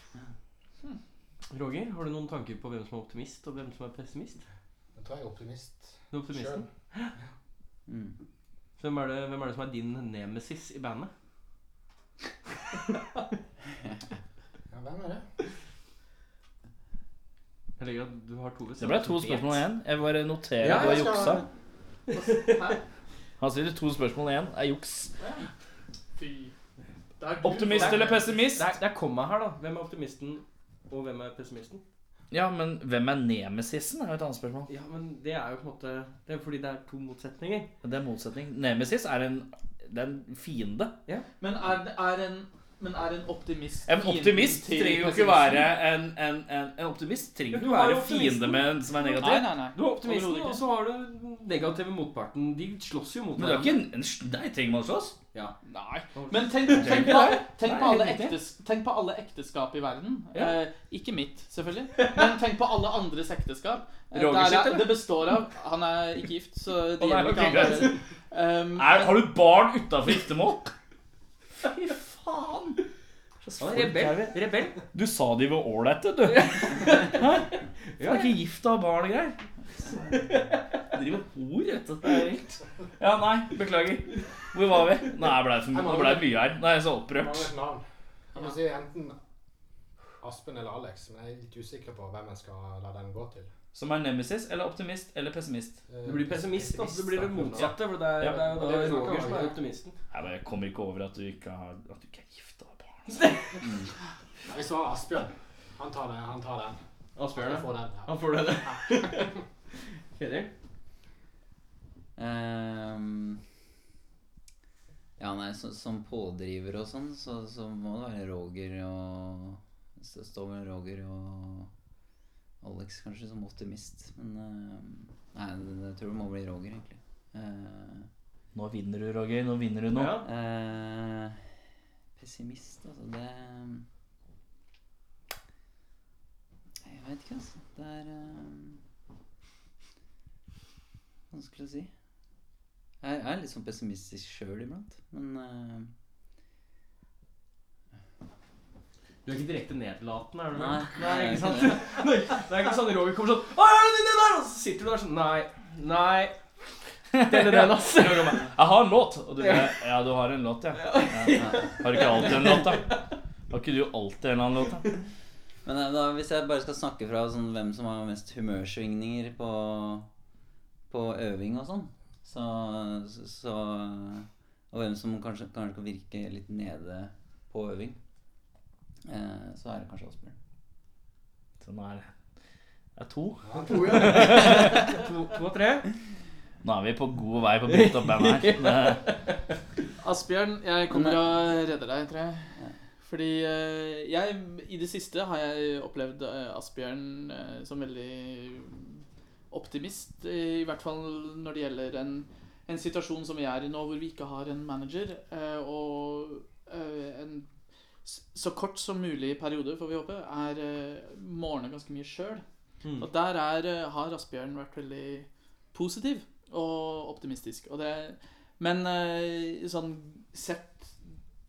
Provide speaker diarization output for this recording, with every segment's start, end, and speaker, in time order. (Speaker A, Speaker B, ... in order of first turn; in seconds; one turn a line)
Speaker A: 1.5-4.4
Speaker B: 5.0-6.7
Speaker A: 6.1-7.1
Speaker C: 7.9-8.2
Speaker A: 8.8-11.1
Speaker B: 14.7-15.2
Speaker A: 17.8-19.6
Speaker D: 18.8-21.4
Speaker A: 20.6-21.4
Speaker B: 20.7-21.4
Speaker E: 22.1-22.8
Speaker A: 22.1-22.8
Speaker D: 23.4-25.1
Speaker E: 25.2-25.5
Speaker E: 26.2-26.5
Speaker E: 27.2-28.4
Speaker D: 27.4-28.7
Speaker A: 27.7-31.8
Speaker D: 32.3-34.7
Speaker A: 34.7-37.7
Speaker D: 37.8-41.0
Speaker E: 41.4-45.7
Speaker D: 43.9-49.5
Speaker A: 47.5-48.7
Speaker E: 49.1-50.6
Speaker A: 49.8-53.8
Speaker D: 53.4-55.2
Speaker E: 55.6-69.3
Speaker A: 56.1-57.4
Speaker D: 56.7-58.4
Speaker A: 62.0-62.3
Speaker A: 64.2-64.8
Speaker D: 67.0-67.9
Speaker D: 68.8-70.7
Speaker D: 71.6-72.8
Speaker D: 73.4-79.4
Speaker A: 73.6-74.8
Speaker A: 76.3-77.3
Speaker A: 78.0-78.3
Speaker A: 80.1-80.6
Speaker D: 80.9-87.5
Speaker B: 85.7-86.4
Speaker B: 87.2-89.2
Speaker B: 90.2-93.5
Speaker D: 93.7-95.8
Speaker B: 95.9-99.6
Speaker A: 96.0-100.0
Speaker D: 97.5-98.9
Speaker D: 100.1-103.3
Speaker A: 103.1-103.7
Speaker B: 104.5-106.8
Speaker A: 107.2-109.4
Speaker B: 107.3-108.2
Speaker A: 110.1-110.5
Speaker C: 112.2-113.4
Speaker C: 115.2-121.7
Speaker C: 122.6-128.1
Speaker D: 128.5-130.2
Speaker A: 129.9-130.3
Speaker C: 130.2-131.4
Speaker C: 132.2-133.9
Speaker C: 136.8-138.8
Speaker C: 141.3-141.9
Speaker C: 143.0-145.9
Speaker A: 149.2-156.4
Speaker C: 150.5-151.9
Speaker D: 157.1-162.9
Speaker A: 157.2-158.5
Speaker A: 159.4-159.8
Speaker A: 160.8-163.0
Speaker D: 163.5-164.8
Speaker C: 165.7-170.1
Speaker C: 170.9-178.0
Speaker C: 179.1-180.3
Speaker D: 181.6-182.1
Speaker D: 183.0-184.9
Speaker B: 183.4-184.4
Speaker A: 183.6-185.9
Speaker D: 186.6-189.1
Speaker A: 187.7-189.0
Speaker E: 190.0-207.5
Speaker C: 190.9-191.2
Speaker E: 208.1-212.4
Speaker A: 212.8-213.1
Speaker E: 213.0-220.9